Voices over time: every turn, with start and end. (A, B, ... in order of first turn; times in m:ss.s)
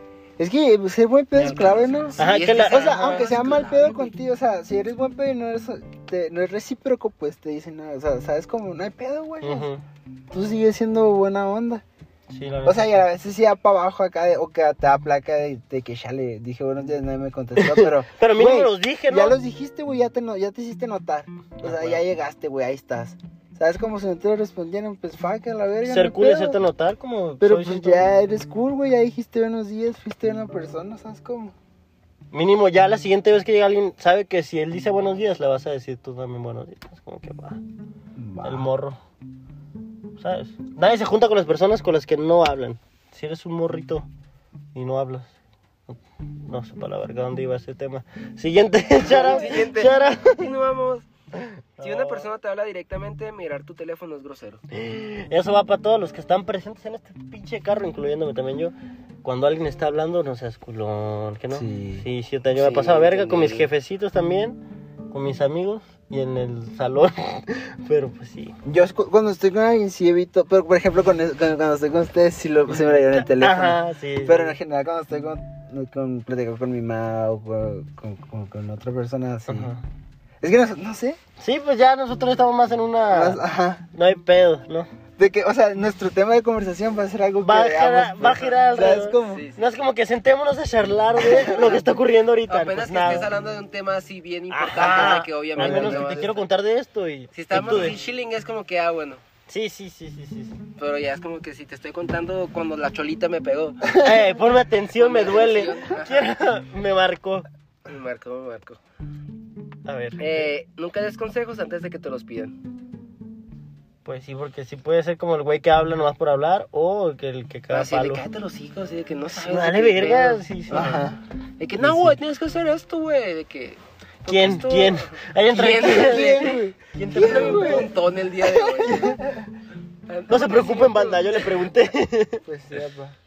0:00.4-0:09.7 A
0:01.4-0:04.1 B
0:02.2-0:03.3 C
0:09.4-0:09.8 C
0:10.3-0:11.8 A
0:12.3-0:13.0 C
0:12.6-0:26.6 A
0:17.6-0:19.4 C
0:21.6-0:22.0 C
0:25.8-0:28.1 C
0:27.4-0:31.6 A
0:32.3-0:37.6 C
0:38.2-0:38.7 A
0:38.4-0:39.0 C
0:40.2-0:44.1 C
0:44.8-0:45.3 C
0:45.9-0:50.5 C
0:49.0-0:51.1 B
0:51.4-0:52.3 C
0:51.8-0:54.6 B
0:54.7-1:08.6 C
1:01.5-1:02.1 A
1:02.5-1:03.7 B
1:08.6-1:19.7 A
1:13.0-1:14.6 C
1:19.5-1:19.8 C
1:20.4-1:21.2 A
1:21.4-1:23.4 C
1:23.1-1:23.9 A
1:23.9-1:24.9 C
1:25.2-1:29.5 A
1:27.4-1:33.3 C
1:29.2-1:29.8 B
1:31.2-1:31.8 A
1:32.5-1:36.4 B
1:34.5-1:38.0 C
1:35.6-1:36.2 A
1:37.3-1:39.2 B
1:39.5-1:40.6 C
1:40.8-1:44.0 B
1:44.0-1:47.5 C
1:45.0-1:46.3 B
1:47.9-1:48.8 B
1:49.8-1:50.5 C
1:50.2-1:52.6 B
1:54.0-1:58.2 C
1:57.7-2:00.9 B
1:59.3-2:01.1 C
2:00.7-2:01.2 A
2:01.6-2:06.6 B
2:01.8-2:02.2 C
2:04.3-2:07.9 C
2:05.8-2:07.9 A
2:07.1-2:09.2 B
2:08.4-2:09.4 A
2:10.1-2:11.7 B
2:10.3-2:12.4 C
2:12.5-2:13.2 A